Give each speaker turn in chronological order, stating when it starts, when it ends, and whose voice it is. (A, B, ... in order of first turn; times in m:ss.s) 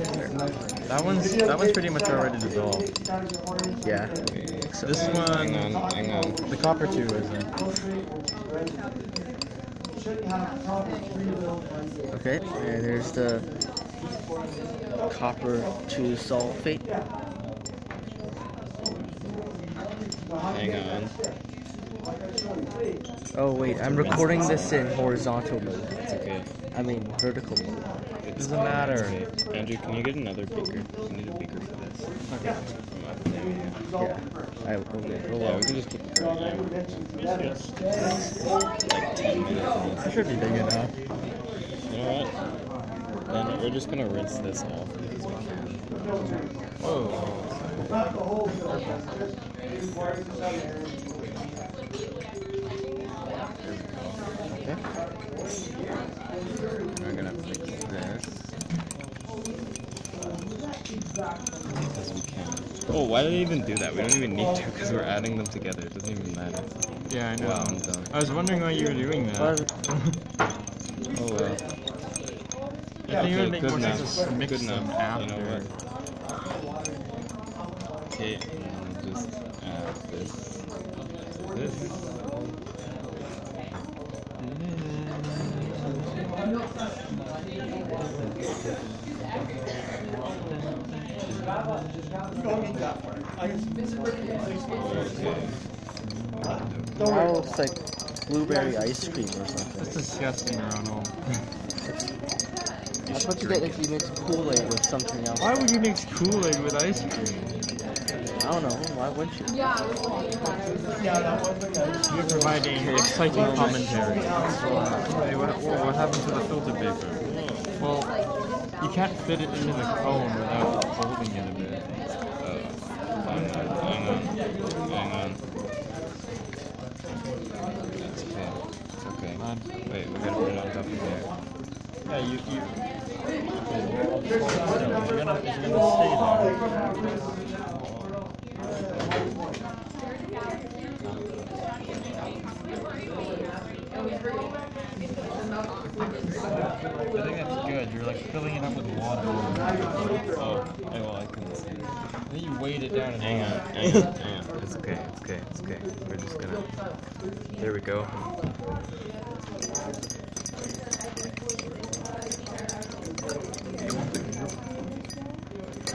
0:00.8-0:02.9 A
0:03.8-0:05.2 B
0:04.2-0:06.4 C
0:04.8-0:05.7 A
0:06.4-0:07.5 A
0:12.1-0:13.5 B
0:15.0-0:16.8 B
0:20.5-0:21.2 C
0:23.3-0:26.0 B
0:23.6-0:25.1 C
0:26.0-0:26.5 C
0:26.7-0:27.8 B
0:28.2-0:33.8 C
0:28.3-0:29.2 A
0:32.3-0:32.8 A
0:34.0-0:35.7 B
0:35.4-0:37.1 C
0:37.2-0:37.7 A
0:37.9-0:40.2 C
0:40.0-0:41.0 A
0:41.8-0:42.3 C
0:43.3-0:45.8 C
0:46.8-0:48.0 C
0:53.6-0:54.3 C
0:57.0-0:58.4 C
1:01.8-1:08.2 C
1:07.1-1:10.2 A
1:09.3-1:09.7 B
1:11.1-1:11.6 C
1:13.0-1:15.7 A
1:13.2-1:15.7 C
1:18.1-1:20.7 C
1:21.5-1:21.8 C
1:21.6-1:21.9 A
1:24.4-1:26.2 A
1:34.7-1:35.6 C
1:36.0-1:37.0 A
1:36.4-1:36.9 C
1:37.0-1:40.0 B
1:39.8-1:41.3 A
1:41.8-1:42.1 B
1:43.0-1:43.9 C
1:43.1-1:45.6 B
1:45.4-1:47.5 A
1:48.4-1:49.5 B
1:52.0-1:58.1 A
1:52.8-1:53.9 B
1:54.6-1:54.9 B
1:57.2-1:57.7 C
1:58.8-2:01.9 A
2:02.4-2:05.4 C
2:07.9-2:11.3 C
2:09.3-2:09.8 A
2:12.0-2:12.8 A
2:13.6-2:16.6 A
2:27.1-2:30.3 A
2:30.3-2:31.9 C
2:32.2-2:34.1 A
2:33.2-2:36.8 C
2:37.5-2:38.6 C